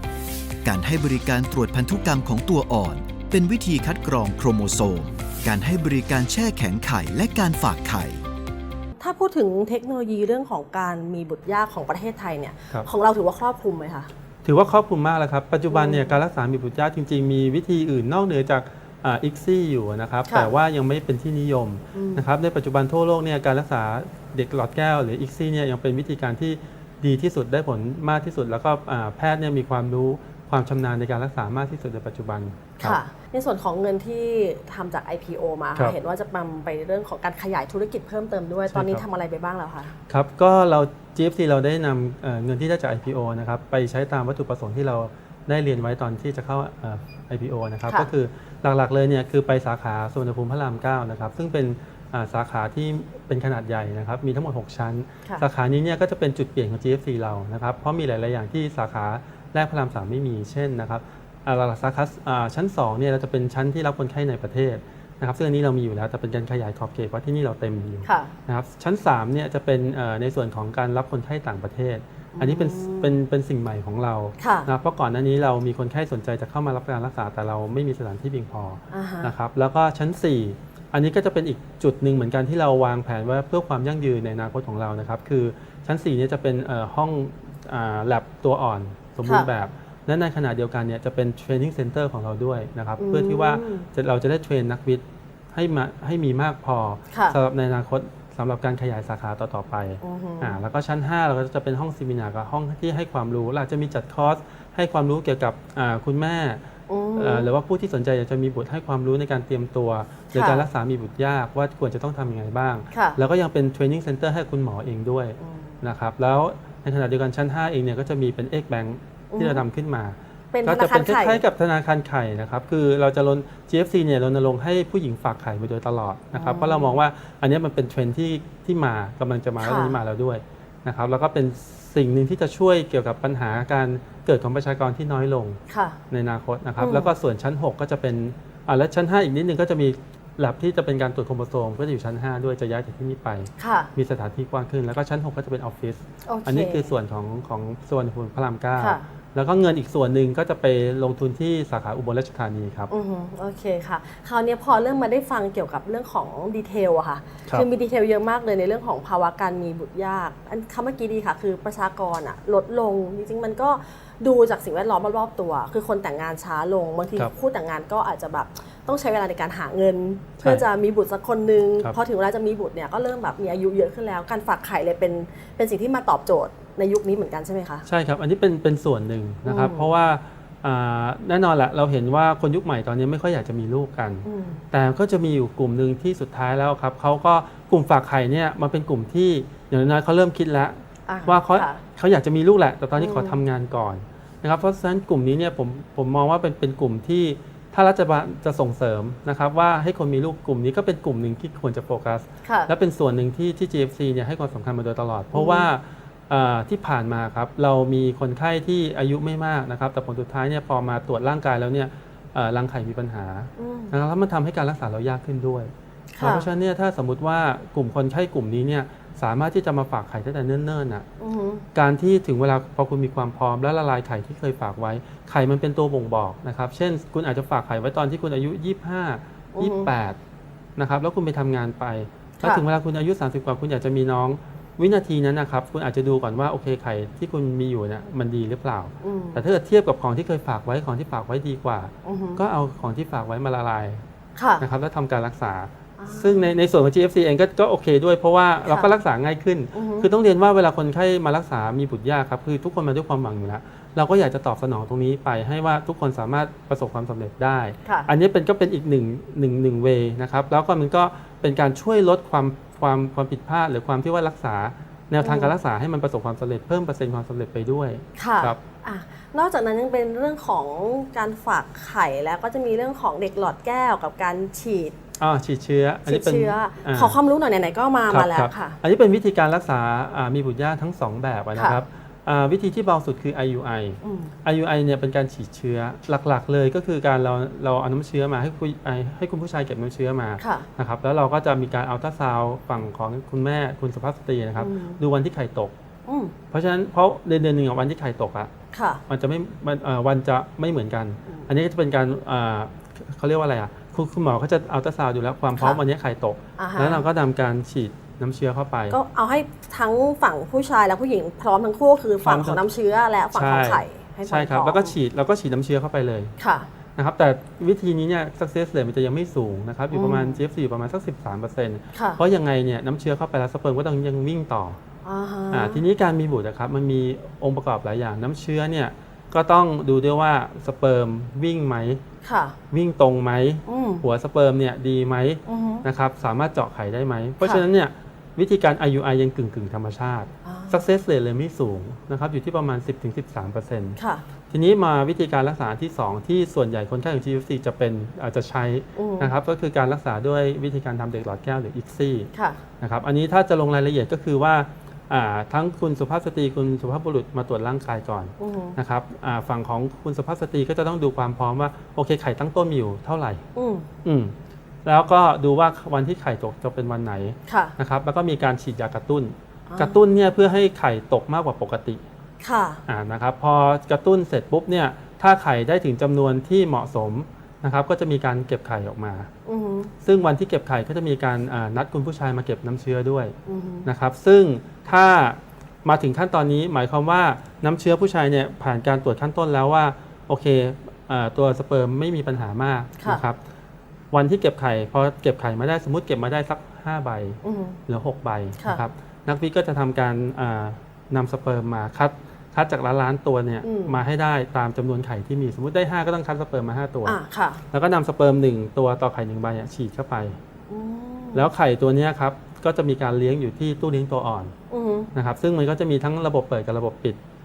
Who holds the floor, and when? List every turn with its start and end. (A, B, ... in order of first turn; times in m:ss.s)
0:00.6-0:08.2 A
0:09.0-0:14.1 B
0:14.4-0:33.0 C
0:15.7-0:16.2 B
0:21.9-0:22.2 B
0:32.8-0:39.9 B
0:38.7-0:39.0 C
0:40.1-1:46.6 C
1:08.0-1:08.3 B
1:12.3-1:13.2 B
1:14.4-1:14.7 B
1:18.9-1:19.3 B
1:33.0-1:33.9 B
1:37.1-1:37.4 B
1:40.0-1:40.6 B
1:46.9-1:47.5 B
1:47.2-2:32.9 C
1:50.3-1:50.6 B
1:52.9-1:53.2 B
1:55.4-1:55.8 B
1:59.3-1:59.6 B
2:00.5-2:01.4 B
2:06.4-2:07.0 B
2:09.6-2:10.0 B
2:15.7-2:16.0 B
2:16.8-2:17.1 B
2:23.6-2:23.9 B
2:26.2-2:26.9 B
2:28.8-2:29.0 B
2:32.9-2:57.8 B
2:57.8-3:41.0 C
2:59.4-2:59.9 B
3:04.2-3:04.6 B
3:11.1-3:11.8 B
3:12.9-3:13.4 B
3:22.4-3:22.7 B
3:25.3-3:25.7 B
3:33.6-3:34.0 B
3:36.1-3:36.5 B
3:41.2-3:41.6 B
3:41.7-3:50.2 C
3:49.6-3:49.9 B
3:50.8-4:04.0 C
3:52.4-3:52.6 B
3:59.0-3:59.4 B
4:02.0-4:02.4 B
4:04.4-4:04.6 B
4:04.6-4:28.6 C
4:06.0-4:06.6 B
4:08.6-4:08.9 B
4:09.7-4:10.1 B
4:25.2-4:25.5 B
4:28.2-4:34.9 B
4:35.2-4:37.2 C
4:36.0-4:38.8 B
4:38.1-4:55.7 C
4:41.6-4:41.8 B
4:44.0-4:44.3 B
4:50.4-4:50.7 B
4:54.6-4:55.0 B
4:56.0-4:56.3 B
4:56.5-4:58.5 C
4:58.7-4:59.0 B
4:59.1-5:09.0 C
5:05.5-5:05.8 B
5:06.6-5:07.0 B
5:08.9-5:14.9 B
5:12.2-5:12.6 C
5:13.3-5:16.3 C
5:16.4-5:16.7 B
5:17.0-5:24.8 C
5:19.9-5:20.4 B
5:21.9-5:22.2 B
5:25.0-5:25.8 B
5:25.5-5:32.0 C
5:32.2-5:32.6 B
5:32.7-5:44.0 C
5:33.7-5:34.0 B
5:35.5-5:35.8 B
5:40.4-5:40.8 B
5:44.0-5:44.2 B
5:44.5-5:52.3 C
5:49.0-5:49.3 B
5:52.3-5:52.6 B
5:52.8-6:03.4 C
5:58.4-5:58.8 B
6:03.5-6:03.9 B
6:04.0-6:04.3 C
6:04.8-6:12.0 C
6:07.5-6:07.7 B
6:09.7-6:10.0 B
6:12.4-6:12.8 B
6:12.9-6:19.3 C
6:19.4-6:19.9 B
6:20.0-6:33.4 C
6:23.4-6:23.9 B
6:34.1-6:47.2 C
6:37.4-6:37.8 B
6:38.6-6:38.8 B
6:43.6-6:44.0 B
6:47.0-6:47.6 B
6:47.7-6:50.4 C
6:50.7-6:51.5 B
6:51.3-6:54.5 C
6:54.7-6:55.1 B
6:55.1-6:57.2 C